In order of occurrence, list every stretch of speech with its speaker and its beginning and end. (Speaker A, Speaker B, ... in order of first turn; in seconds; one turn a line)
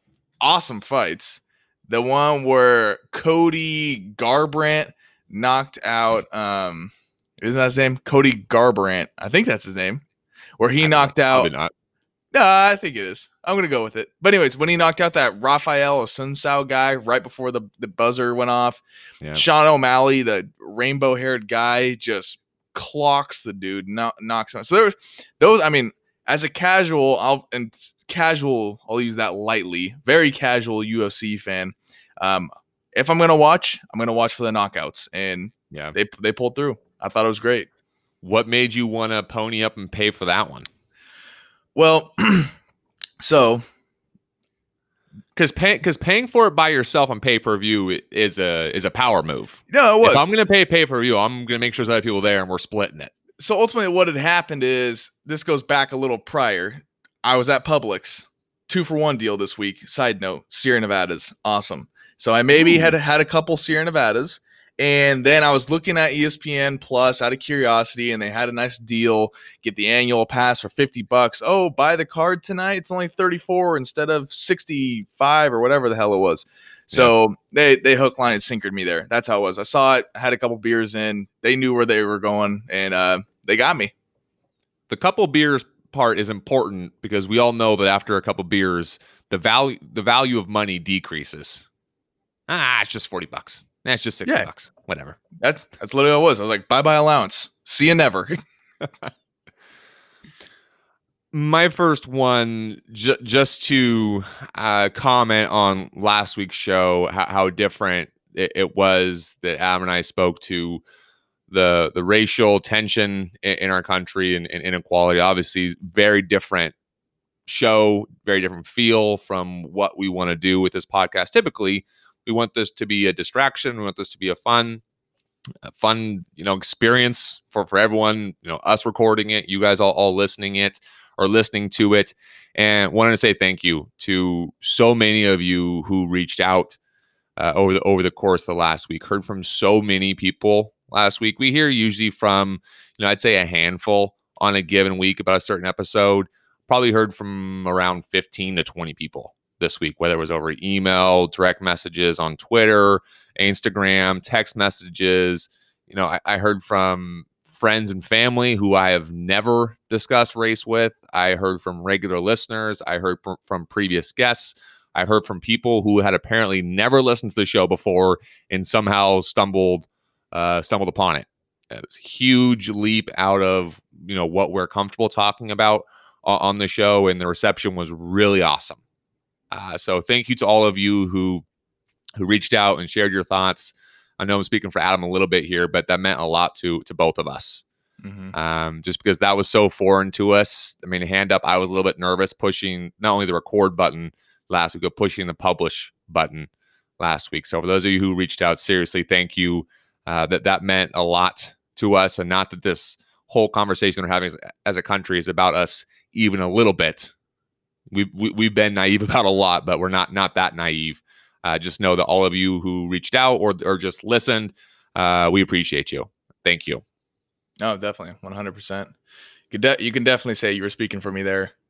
Speaker A: 0.4-10.0
Speaker A: 10.6-11.5
Speaker B: 10.8-11.7
Speaker A: 12.3-18.8
Speaker A: 19.3-37.7
Speaker B: 35.7-36.0
Speaker B: 38.2-40.7
Speaker A: 41.8-42.5
Speaker A: 43.2-43.6
Speaker B: 45.4-53.1
Speaker A: 49.7-50.2
Speaker A: 53.4-83.9
Speaker B: 84.9-91.7
Speaker B: 92.5-95.2
Speaker A: 95.4-98.4
Speaker B: 101.3-110.8
Speaker B: 111.5-116.7
Speaker B: 117.5-124.8
Speaker B: 125.7-136.8
Speaker B: 137.4-178.8
Speaker B: 179.5-181.4
Speaker B: 182.2-187.7
Speaker A: 188.0-188.3
Speaker B: 188.3-207.1
Speaker B: 207.9-216.8
Speaker A: 217.6-218.9
Speaker A: 219.5-221.5